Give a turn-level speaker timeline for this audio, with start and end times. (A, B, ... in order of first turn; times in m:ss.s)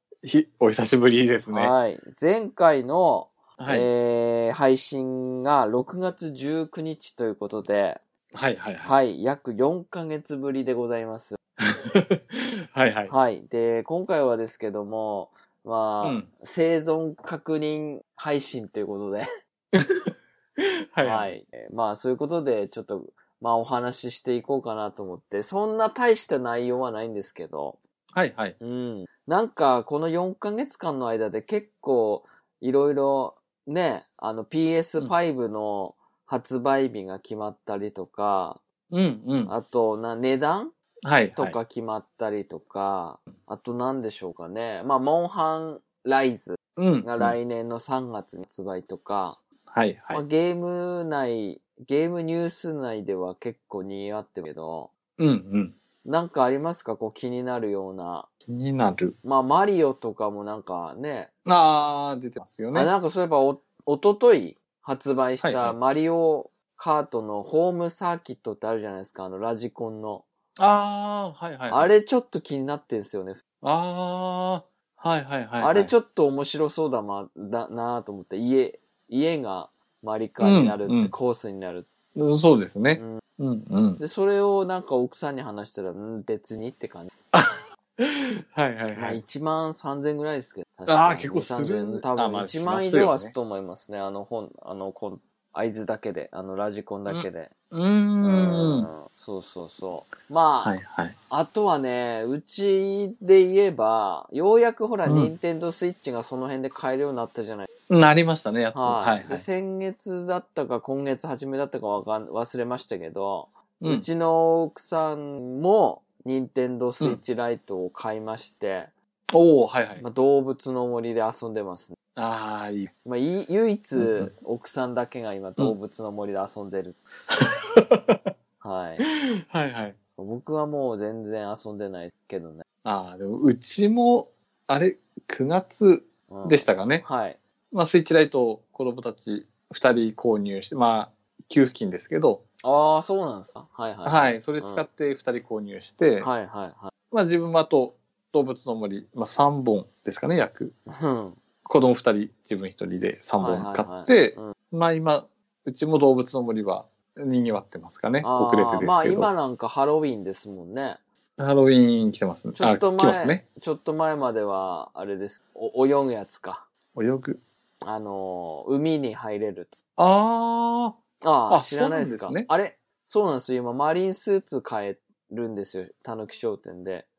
0:00.2-0:01.7 A
0:01.5-0:08.0 B
0:03.6-0:03.9 A
0:08.3-0:08.9 A
0:08.8-0:11.4 B
0:11.6-0:13.1 A
0:13.1-0:19.3 B
0:16.0-0:16.3 A
0:19.7-0:21.3 A
0:21.0-0:27.8 B
0:28.1-0:28.6 A
0:28.6-0:38.6 B
0:38.9-0:39.5 A
0:39.5-0:40.7 B
0:41.0-0:41.6 A
0:41.4-0:49.4 B
0:46.8-0:47.4 A
0:49.7-0:50.2 A
0:50.1-0:54.9 B
0:55.2-0:55.8 A
0:56.0-0:58.3 B
0:58.5-0:59.2 A
0:59.2-1:01.3 B
1:01.4-1:02.9 A
1:02.7-1:10.2 B
1:05.4-1:05.8 A
1:10.6-1:11.9 A
1:11.7-1:13.4 B
1:13.6-1:15.9 A
1:15.6-1:21.9 B
1:20.4-1:21.1 A
1:22.2-1:24.0 A
1:23.0-1:23.2 B
1:24.0-1:27.1 B
1:27.3-1:29.2 A
1:28.9-1:37.5 B
1:30.9-1:33.3 A
1:37.1-1:38.9 A
1:38.2-1:40.8 B
1:40.6-1:41.2 A
1:41.3-1:47.7 B
1:45.1-1:45.3 A
1:47.9-1:49.4 A
1:48.7-1:58.9 B
1:53.8-1:54.1 A
1:59.3-2:00.0 A
2:00.0-2:02.0 B
2:02.2-2:02.9 A
2:03.0-2:07.0 B
2:04.0-2:04.3 A
2:07.3-2:08.2 A
2:08.6-2:09.0 B
2:09.0-2:10.0 A
2:10.2-2:12.6 B
2:12.8-2:17.0 A
2:16.3-2:17.4 B
2:17.7-2:22.4 A
2:22.6-2:24.8 B
2:24.0-2:26.3 A
2:26.2-2:26.9 B
2:27.1-2:30.8 A
2:30.9-2:31.4 B
2:31.6-2:39.3 A
2:33.4-2:34.6 B
2:38.2-2:41.0 B
2:41.4-2:43.4 A
2:42.6-2:46.7 B
2:47.0-2:47.4 A
2:47.8-2:49.7 B
2:50.0-2:52.5 A
2:51.2-2:57.1 B